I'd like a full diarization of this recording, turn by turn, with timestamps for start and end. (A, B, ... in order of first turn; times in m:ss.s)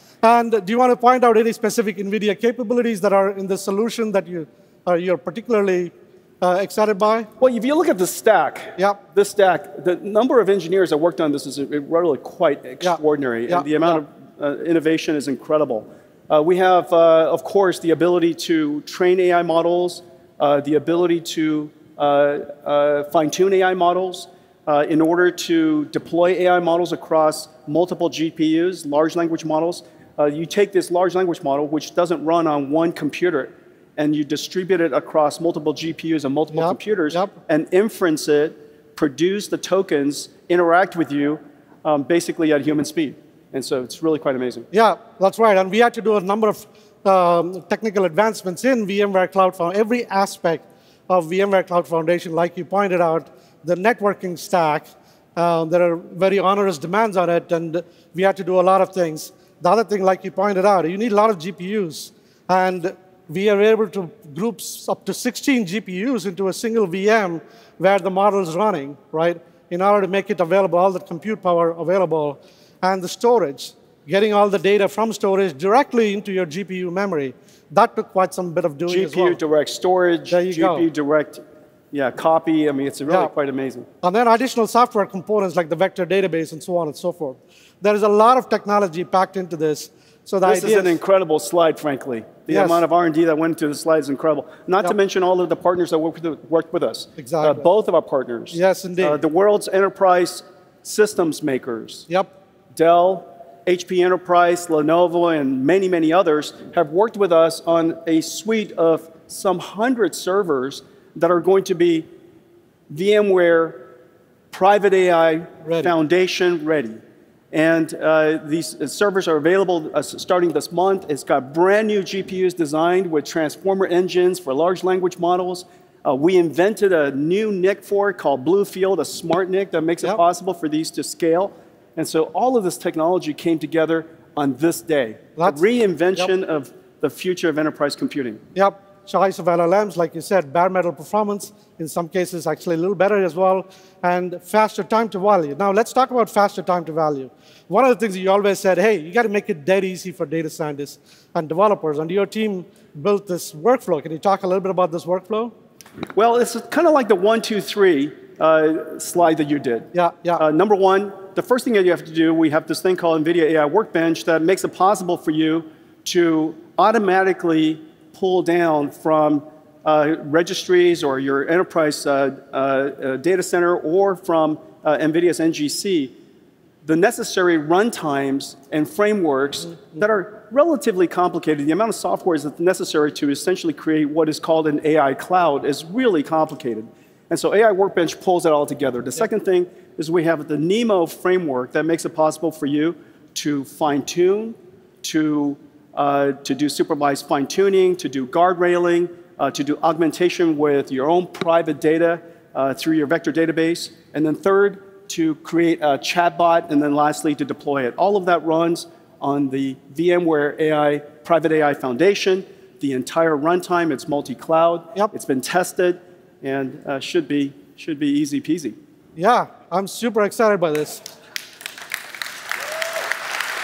0:00.2-0:07.3 A
0:07.4-0:44.7 B
0:12.8-0:14.0 A
0:36.5-0:37.3 A
0:44.7-1:19.4 A
1:18.9-1:23.8 B
1:20.3-1:20.8 A
1:24.0-1:31.0 A
1:30.4-1:42.1 B
1:32.5-1:32.8 A
1:37.2-1:37.7 A
1:38.5-1:39.2 A
1:42.8-1:52.1 B
1:52.9-1:53.8 B
1:54.5-1:57.0 B
1:55.6-1:55.9 A
1:57.5-2:18.4 B
2:15.4-2:15.6 A
2:18.6-2:35.5 A
2:36.1-2:56.1 B
2:39.9-2:40.4 A
2:56.8-3:38.8 B
3:39.2-3:41.0 A